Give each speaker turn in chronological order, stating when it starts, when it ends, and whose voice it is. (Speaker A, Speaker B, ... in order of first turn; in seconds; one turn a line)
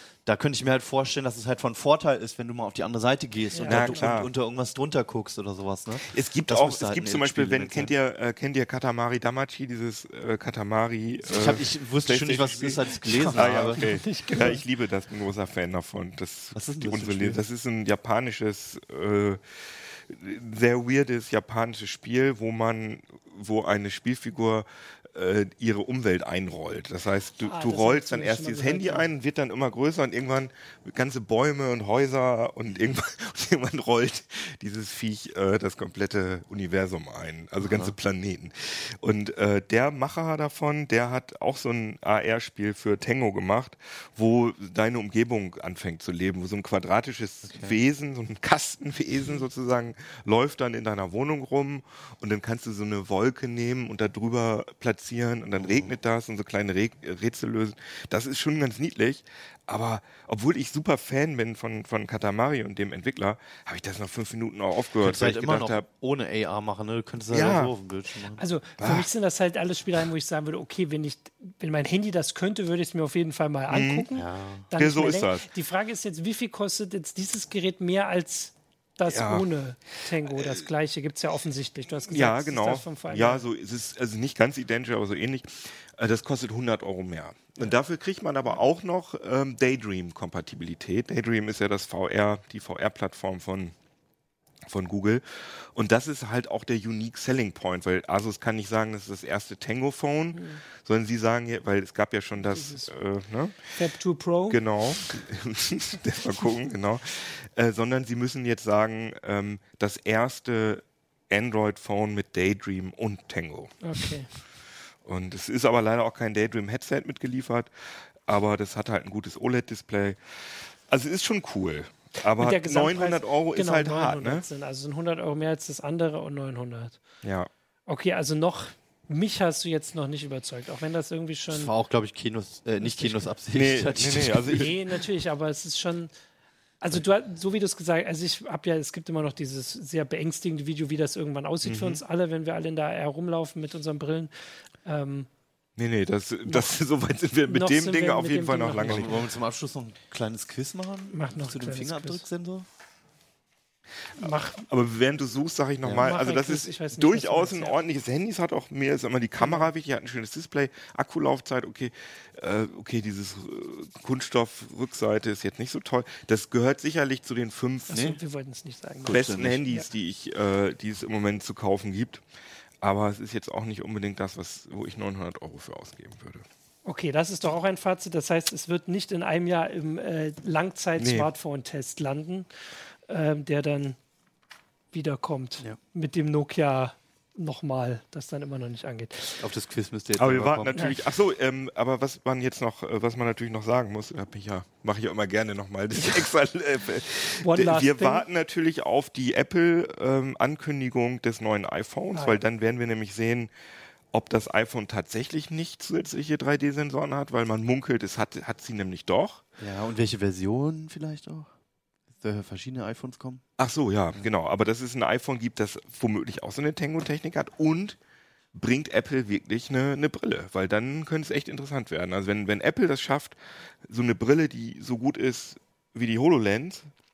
Speaker A: 0.2-7.9
Speaker B: 3.5-4.1
Speaker C: 3.6-4.3
Speaker C: 6.0-65.8
Speaker A: 11.2-14.5
Speaker B: 13.0-14.6
Speaker A: 16.5-17.4
Speaker B: 27.4-29.1
Speaker A: 37.6-38.0
Speaker A: 47.5-47.8
Speaker A: 55.6-55.9
Speaker A: 65.0-68.4
Speaker C: 67.3-67.7
Speaker B: 68.4-83.5
Speaker C: 68.8-69.1
Speaker C: 73.7-74.1
Speaker A: 74.1-74.7
Speaker C: 74.7-75.5
Speaker C: 79.1-79.5
Speaker C: 80.3-80.6
Speaker C: 82.0-93.7
Speaker C: 94.7-103.8
Speaker B: 100.3-100.6
Speaker B: 102.4-102.9
Speaker B: 103.7-104.6
Speaker C: 104.5-114.1
Speaker B: 113.8-114.3
Speaker C: 115.0-124.4
Speaker B: 122.3-127.0
Speaker C: 127.2-127.5
Speaker B: 127.9-131.7
Speaker A: 131.5-134.7
Speaker B: 132.8-133.3
Speaker C: 133.5-134.7
Speaker B: 134.5-136.1
Speaker B: 136.8-145.3
Speaker C: 141.6-142.0
Speaker C: 145.8-149.2
Speaker B: 146.5-146.8
Speaker B: 147.5-149.1
Speaker A: 148.8-152.7
Speaker B: 151.1-152.2
Speaker B: 154.1-154.6
Speaker C: 154.2-168.1
Speaker A: 155.8-156.1
Speaker B: 156.0-157.8
Speaker B: 159.4-159.7
Speaker B: 167.9-169.8
Speaker A: 167.9-168.2
Speaker A: 169.0-169.7
Speaker C: 169.1-172.2
Speaker C: 172.8-176.4
Speaker B: 176.8-184.0
Speaker C: 181.0-181.3
Speaker B: 184.9-189.4
Speaker A: 189.4-191.0
Speaker C: 190.1-203.5
Speaker B: 195.9-196.3
Speaker B: 197.4-198.2
Speaker B: 202.1-202.4
Speaker C: 204.1-209.4
Speaker A: 209.6-211.5
Speaker A: 212.2-213.4
Speaker C: 213.6-218.0
Speaker C: 218.5-226.9